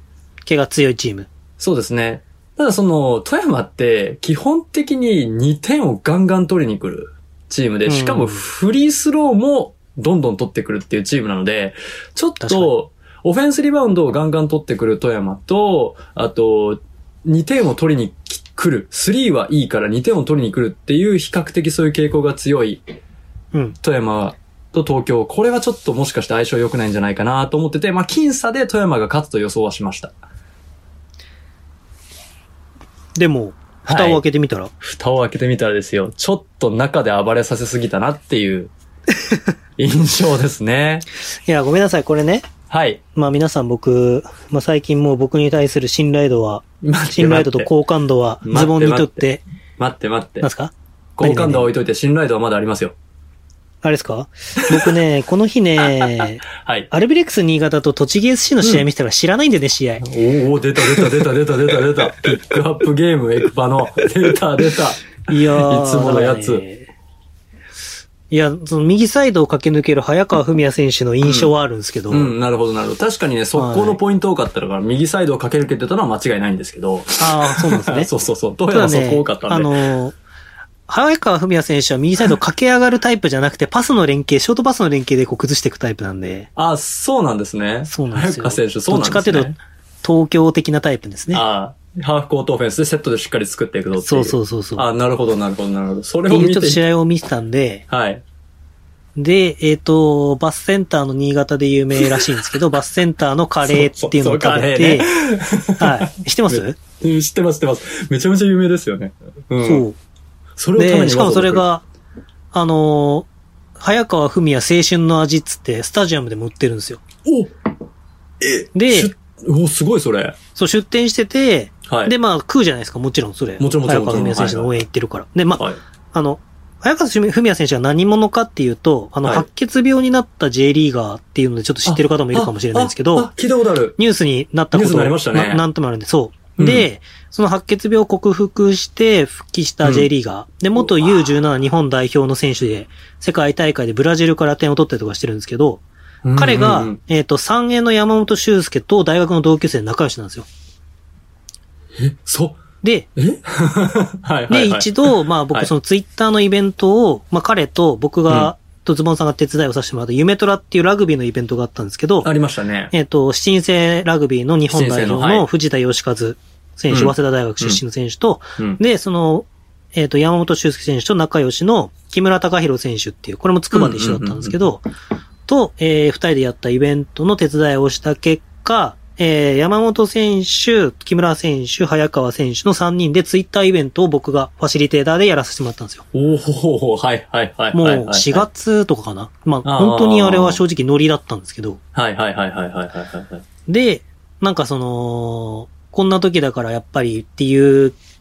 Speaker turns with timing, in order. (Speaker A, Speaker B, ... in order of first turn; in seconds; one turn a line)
Speaker A: 0.5-1.3
Speaker B: 1.6-22.8
Speaker A: 7.9-8.4
Speaker A: 12.4-12.7
Speaker B: 23.8-30.1
Speaker A: 33.2-34.7
Speaker B: 33.9-34.2
Speaker B: 34.8-38.7
Speaker B: 39.8-41.1
Speaker A: 41.5-42.5
Speaker B: 42.7-43.0
Speaker A: 43.1-49.4
Speaker B: 46.8-47.7
Speaker B: 48.4-49.3
Speaker B: 49.8-50.5
Speaker A: 50.4-51.7
Speaker B: 51.2-53.0
Speaker A: 53.8-60.0
Speaker B: 56.0-56.9
Speaker B: 60.0-66.6
Speaker A: 65.3-66.9
Speaker A: 68.3-72.3
Speaker B: 71.2-71.5
Speaker B: 72.1-79.8
Speaker A: 73.5-74.0
Speaker A: 77.2-78.1
Speaker A: 78.7-80.2
Speaker A: 80.9-86.5
Speaker B: 86.6-89.6
Speaker A: 87.9-91.4
Speaker B: 91.3-96.8
Speaker A: 94.0-94.9
Speaker A: 96.3-97.8
Speaker B: 97.9-98.2
Speaker A: 99.2-105.1
Speaker B: 102.0-102.4
Speaker B: 103.6-109.8
Speaker A: 105.8-106.8
Speaker A: 109.6-110.0
Speaker B: 110.6-111.7
Speaker A: 110.8-111.8
Speaker A: 112.5-113.3
Speaker A: 113.8-117.0
Speaker B: 117.2-117.5
Speaker B: 118.4-120.4
Speaker A: 118.7-119.1
Speaker A: 120.6-133.3
Speaker B: 121.9-122.2
Speaker B: 123.6-124.8
Speaker B: 131.8-134.0
Speaker A: 134.0-145.8
Speaker B: 134.7-135.6
Speaker B: 136.6-136.9
Speaker B: 139.8-140.1
Speaker B: 140.8-141.3
Speaker B: 146.2-147.0
Speaker A: 146.3-150.5
Speaker B: 152.0-152.6
Speaker A: 152.8-153.1
Speaker B: 153.2-155.7
Speaker A: 154.5-162.3
Speaker B: 162.2-162.9
Speaker A: 162.9-174.8
Speaker B: 164.7-165.5
Speaker B: 166.9-167.8
Speaker B: 173.7-174.6
Speaker A: 175.5-186.1
Speaker B: 186.1-188.5
Speaker A: 187.7-191.8
Speaker B: 189.6-190.6
Speaker B: 191.9-193.5
Speaker A: 193.7-198.0